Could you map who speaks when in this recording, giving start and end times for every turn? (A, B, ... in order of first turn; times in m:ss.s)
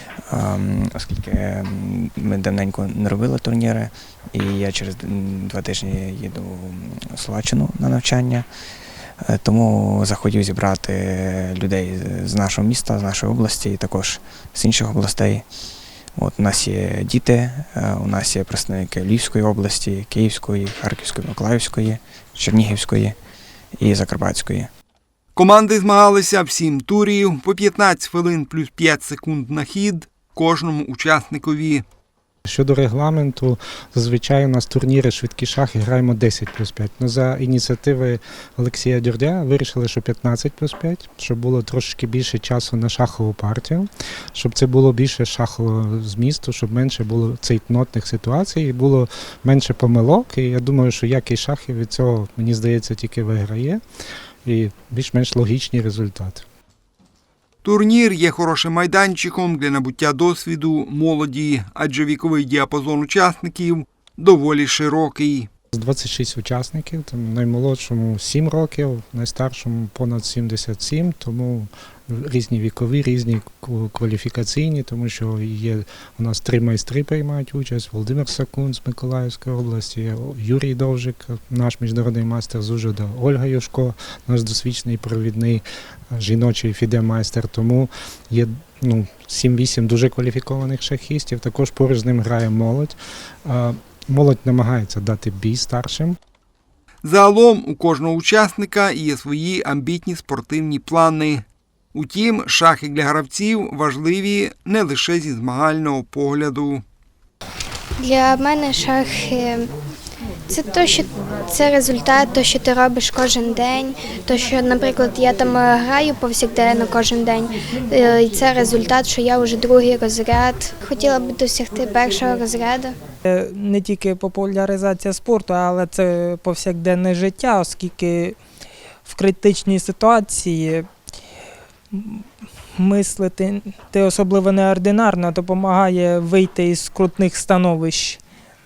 0:00.3-0:08.4 A
0:09.2-0:15.4 A
0:16.2-0:23.2 A
0:23.8-0:24.7 A
0:25.3-0:31.8 B
0:32.4-0:53.8 C
0:54.4-0:56.4 C
0:57.6-1:05.5 B
1:05.7-1:36.2 C
1:37.0-1:46.8 B
1:48.0-1:49.7 D
1:50.5-2:02.9 D
2:03.3-2:08.4 E
2:09.0-2:10.9 E
2:11.9-2:12.2 E
2:12.8-2:18.2 E